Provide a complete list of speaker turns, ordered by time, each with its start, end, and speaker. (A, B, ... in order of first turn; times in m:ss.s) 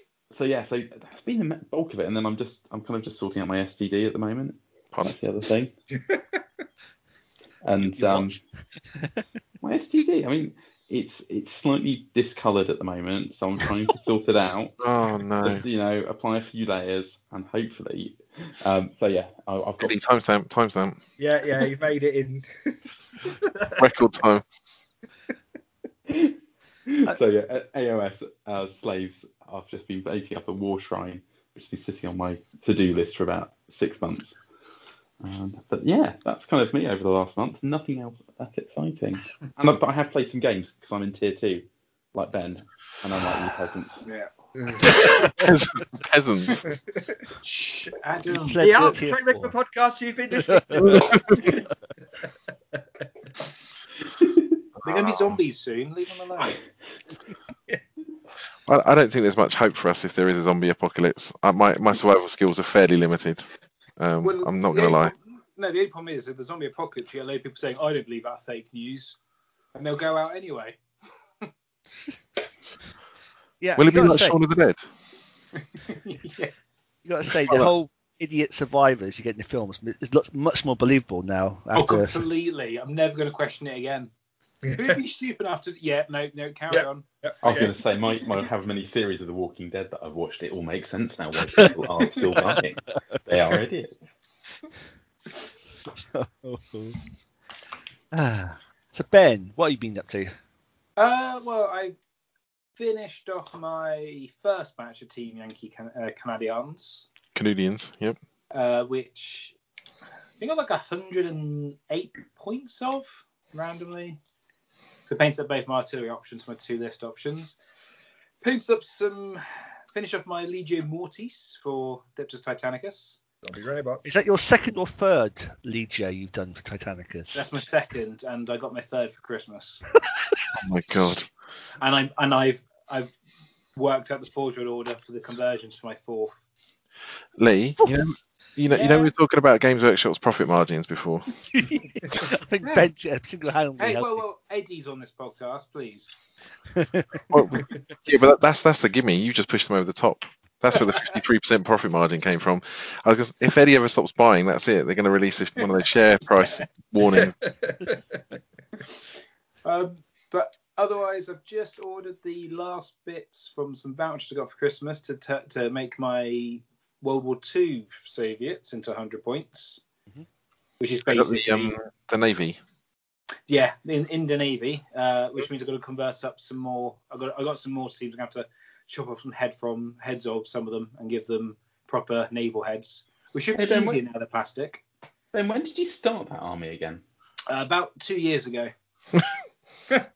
0:00.3-0:05.7 A
0:06.0-0:06.4 B
0:07.6-0:08.4 A
0:08.0-0:08.3 C
0:09.6-0:14.8 A
0:14.8-0:15.6 C
0:15.4-0:19.9 A
0:19.8-0:21.0 C
0:21.2-0:22.8 B
0:23.3-0:23.9 B
0:23.8-0:24.4 C
0:26.1-0:34.4 A
0:35.2-0:44.1 A
0:44.0-0:44.3 D
0:44.8-0:46.7 C
0:47.4-0:49.0 D
0:48.4-0:49.6 E
0:48.6-0:51.5 B
0:50.4-0:51.0 E
0:50.8-0:51.6 C
0:54.0-0:54.5 A
0:54.8-0:55.4 C
0:54.8-0:56.6 D
0:58.7-1:05.1 C
1:04.2-1:09.2 D
1:09.8-1:10.8 D
1:13.6-1:14.4 E
1:13.8-1:14.9 C
1:15.8-1:16.5 D
1:17.0-1:22.2 E
1:17.4-1:17.7 C
1:21.7-1:24.1 D
1:24.7-1:25.0 B
1:24.7-1:27.1 D
1:26.7-1:27.7 B
1:27.4-1:34.1 A
1:36.1-1:37.0 E
1:38.1-1:40.4 E
1:41.0-1:42.0 D
1:42.8-1:47.1 D
1:47.4-1:48.2 C
1:48.5-1:49.5 D
1:50.4-1:54.2 D
1:55.1-1:57.6 D
1:58.4-2:03.2 D
2:03.4-2:04.0 B
2:04.0-2:07.6 E
2:07.3-2:09.8 D
2:10.6-2:11.3 C
2:11.8-2:13.1 D
2:13.8-2:16.3 D
2:17.4-2:21.3 C
2:17.8-2:18.1 E
2:18.7-2:19.1 D
2:21.5-2:24.2 E
2:22.6-2:22.9 D
2:23.8-2:26.2 D
2:26.8-2:27.6 E
2:27.3-2:37.5 C
2:37.2-2:38.2 B
2:39.6-2:49.8 D
2:50.8-2:51.7 D
2:51.1-2:52.6 C
2:53.5-3:04.8 D
3:03.6-3:04.0 A
3:05.3-3:07.0 A
3:07.5-3:08.7 D